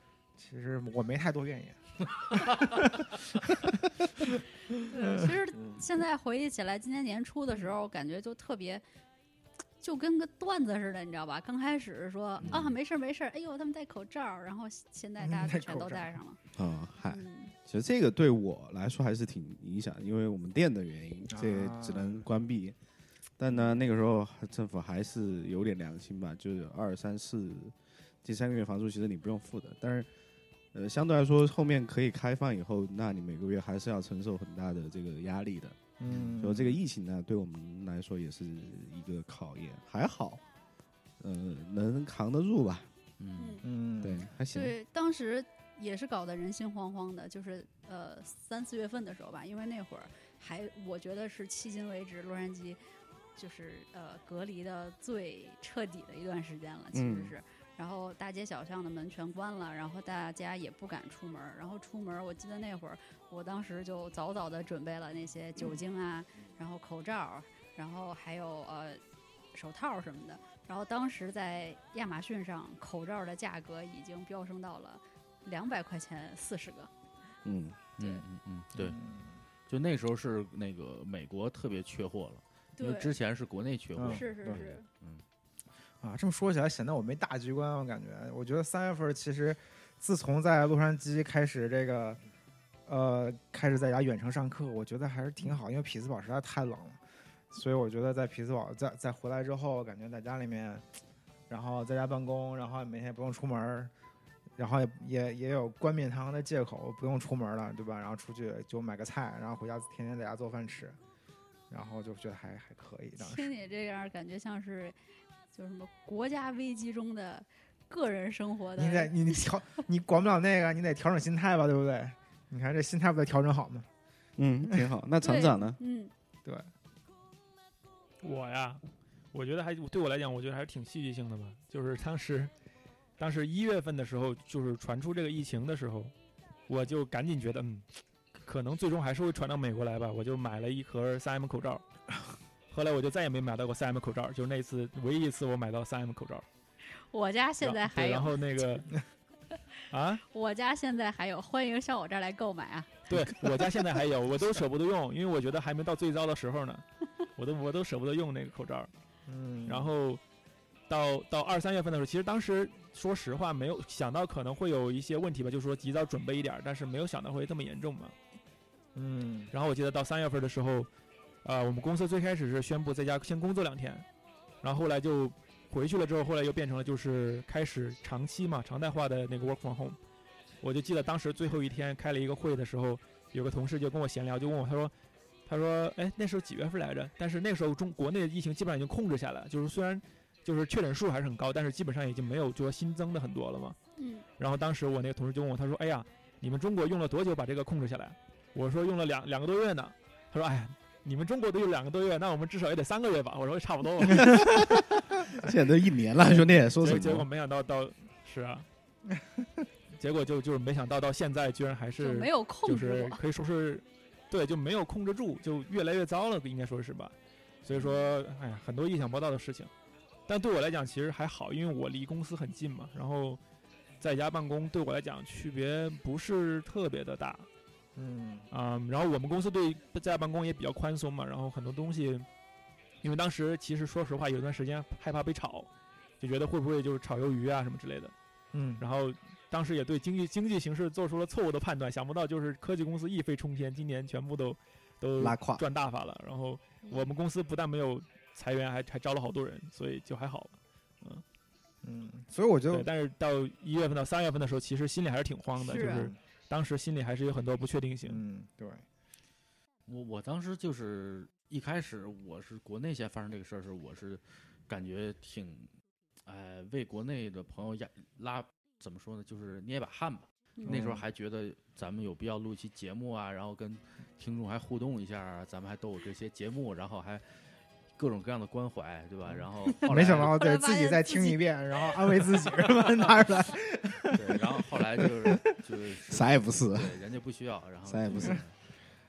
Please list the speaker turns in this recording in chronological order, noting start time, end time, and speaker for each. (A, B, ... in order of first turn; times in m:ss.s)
0:00.4-0:05.3 A
0:04.8-0:08.8 B
0:09.8-0:16.4 B
0:12.4-0:12.7 C
0:15.2-0:16.2 A
0:16.5-0:22.8 D
0:17.1-0:17.5 B
0:21.3-0:22.2 A
0:23.4-0:30.1 D
0:30.7-0:40.4 D
0:36.0-0:36.8 A
0:41.2-0:42.9 D
0:43.2-0:43.6 C
0:43.4-0:43.6 B
0:43.6-0:44.3 A
0:44.0-0:44.7 D
0:44.5-0:52.8 B
0:53.4-1:09.0 B
0:56.9-0:57.3 D
1:09.5-1:16.9 B
1:17.4-1:17.8 D
1:18.0-1:19.0 C
1:18.8-1:19.4 A
1:19.7-1:25.2 C
1:22.8-1:23.2 B
1:24.0-1:24.2 A
1:24.0-1:24.8 B
1:26.0-1:32.2 A
1:32.8-1:37.0 A
1:37.5-1:40.8 A
1:41.5-1:43.9 A
1:44.6-1:51.0 A
1:51.7-1:53.5 A
1:53.2-1:55.0 B
1:55.5-1:59.5 B
1:58.8-2:03.9 A
2:04.4-2:05.8 D
2:05.2-2:06.1 B
2:08.2-2:08.8 E
2:09.3-2:12.5 E
2:13.2-2:16.1 E
2:16.7-2:21.8 E
2:22.7-2:26.4 E
2:27.0-2:28.6 B
2:27.6-2:28.9 E
2:29.9-2:30.2 E
2:30.2-2:33.0 B
2:33.1-2:36.8 E
2:37.4-2:38.9 E
2:39.3-2:39.9 A
2:39.6-2:40.2 E
2:40.9-2:48.1 E
2:48.9-2:49.5 A
2:49.5-2:50.9 E
2:51.4-2:54.0 E
2:54.6-3:00.0 E
3:00.6-3:04.9 E
3:05.4-3:13.8 E
3:14.0-3:14.2 B
3:14.4-3:24.6 E
3:24.2-3:27.3 D
3:26.3-3:28.7 E
3:30.0-3:39.7 E
3:32.0-3:33.2 B
3:40.3-3:43.4 E
3:44.0-3:47.5 E
3:48.0-3:48.5 A
3:48.5-3:52.3 E
3:53.0-3:55.7 E
3:56.2-3:58.1 E
3:58.5-3:58.8 A
3:58.8-4:11.2 E
4:05.2-4:05.6 D
4:11.8-4:12.9 A
4:12.7-4:18.2 E
4:15.6-4:16.2 A
4:15.6-4:16.1 B
4:18.0-4:18.8 A
4:19.9-4:25.7 C
4:26.2-4:37.2 C
4:30.6-4:31.0 A
4:38.0-4:40.4 C
4:39.3-4:45.4 A
4:40.0-4:41.4 B
4:42.5-4:43.1 C
4:44.1-4:48.5 C
4:46.1-4:47.0 D
4:47.8-4:48.4 D